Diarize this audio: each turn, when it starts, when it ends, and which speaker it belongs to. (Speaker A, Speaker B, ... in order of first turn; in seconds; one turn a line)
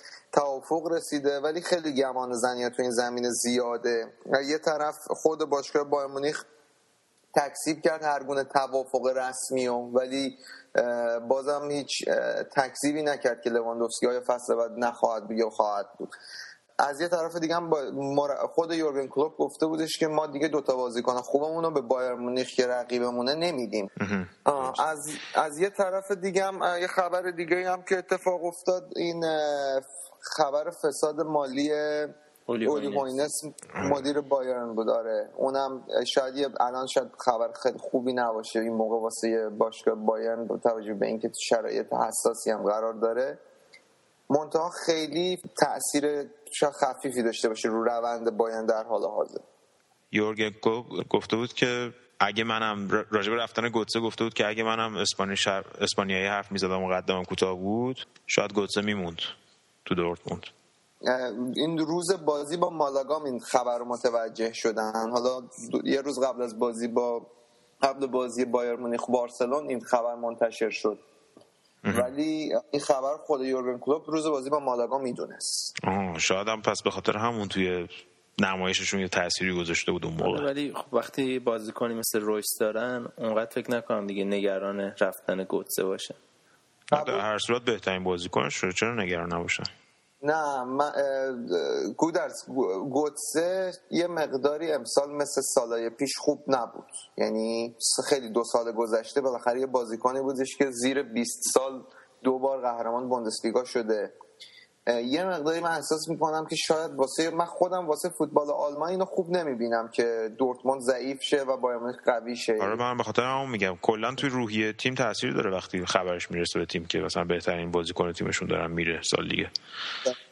Speaker A: 0.3-6.4
Speaker A: 7.3-16.1
Speaker A: 16.8-23.9
Speaker B: 24.0-24.8
Speaker A: 24.4-43.4
Speaker C: 32.5-33.1
Speaker A: 44.3-49.4
Speaker B: 50.1-59.3
Speaker B: 59.9-60.5
Speaker A: 61.0-67.3
Speaker A: 67.8-71.0
Speaker B: 71.8-72.1
Speaker A: 71.9-75.7
Speaker B: 75.8-80.5
Speaker C: 80.2-86.2
Speaker A: 86.9-87.2
Speaker B: 86.9-89.7
Speaker A: 90.2-104.1
Speaker A: 104.9-112.8
Speaker B: 112.6-119.5